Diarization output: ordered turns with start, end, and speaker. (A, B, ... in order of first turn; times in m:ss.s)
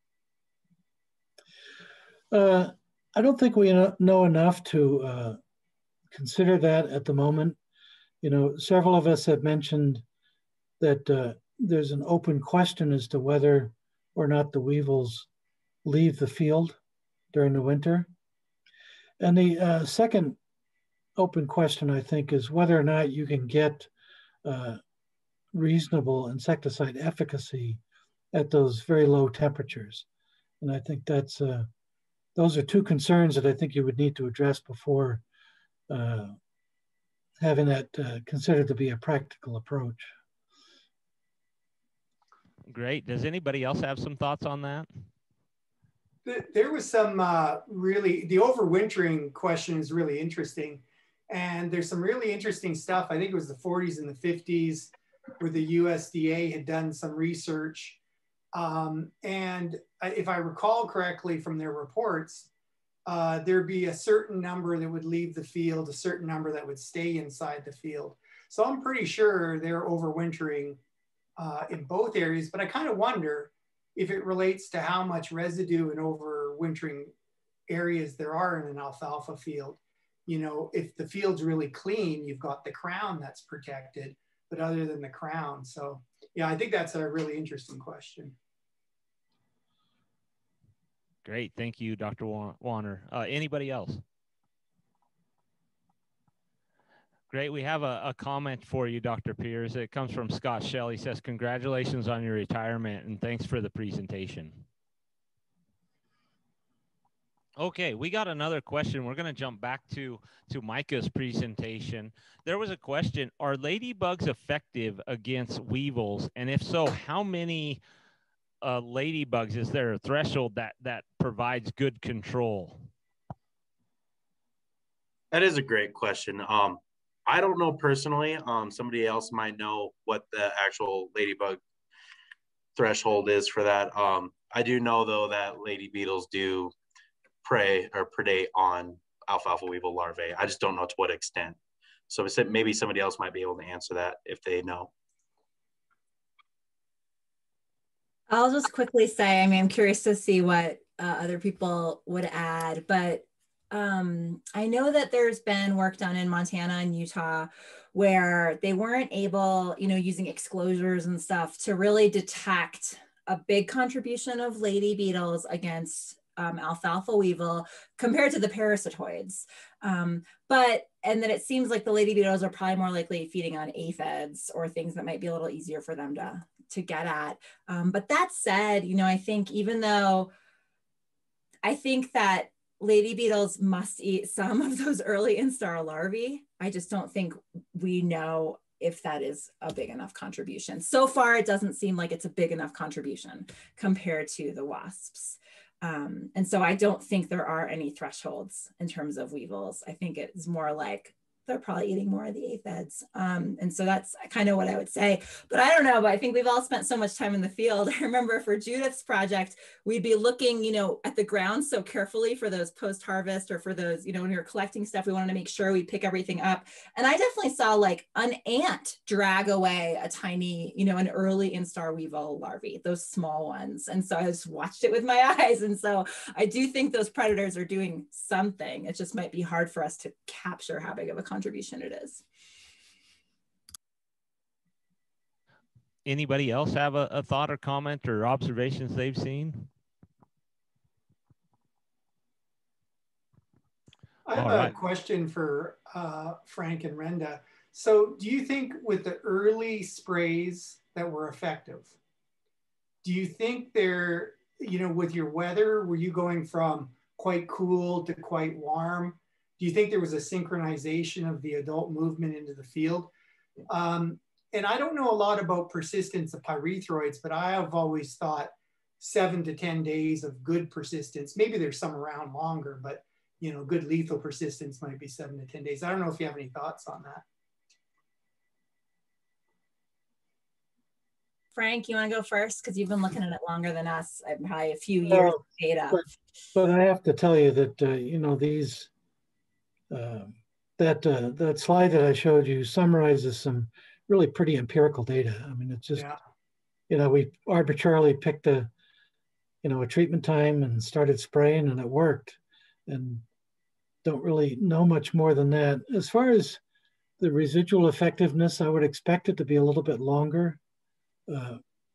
0:02.3-0:05.4 A
0:06.1-0:07.6 A
0:08.2-0:10.0 A
0:10.8-0:15.3 A
0:15.8-0:16.8 A
0:17.3-0:18.1 A
0:19.2-0:20.4 A
0:21.2-0:23.9 A
0:24.4-0:24.8 A
0:25.5-0:27.8 A
0:28.3-0:30.0 A
0:30.6-0:31.6 A
0:32.4-0:35.2 A
0:35.9-0:36.3 A
0:37.4-0:40.1 A
0:42.7-0:44.9 B
0:46.2-0:58.0 C
0:58.5-1:02.5 C
1:03.0-1:10.8 C
1:11.4-1:17.1 C
1:17.7-1:28.4 C
1:31.2-1:34.0 B
1:37.3-1:44.6 B
1:47.6-1:57.8 B
1:58.6-2:02.7 B
2:05.3-2:11.6 D
2:12.7-2:16.7 D
2:17.4-2:24.9 D
2:28.3-3:00.3 E
3:01.6-3:52.2 E
3:56.0-3:59.7 B
4:04.2-4:12.0 C
4:04.3-4:04.8 B
4:13.0-4:23.1 C
4:23.7-4:37.2 C
4:41.5-4:46.0 E
4:45.1-4:46.0 A
4:46.5-4:48.9 A
4:49.9-4:56.1 A
4:56.9-4:58.7 A
4:59.6-5:03.2 A
5:04.0-5:06.6 A
5:07.2-5:10.6 A
5:11.3-5:11.6 A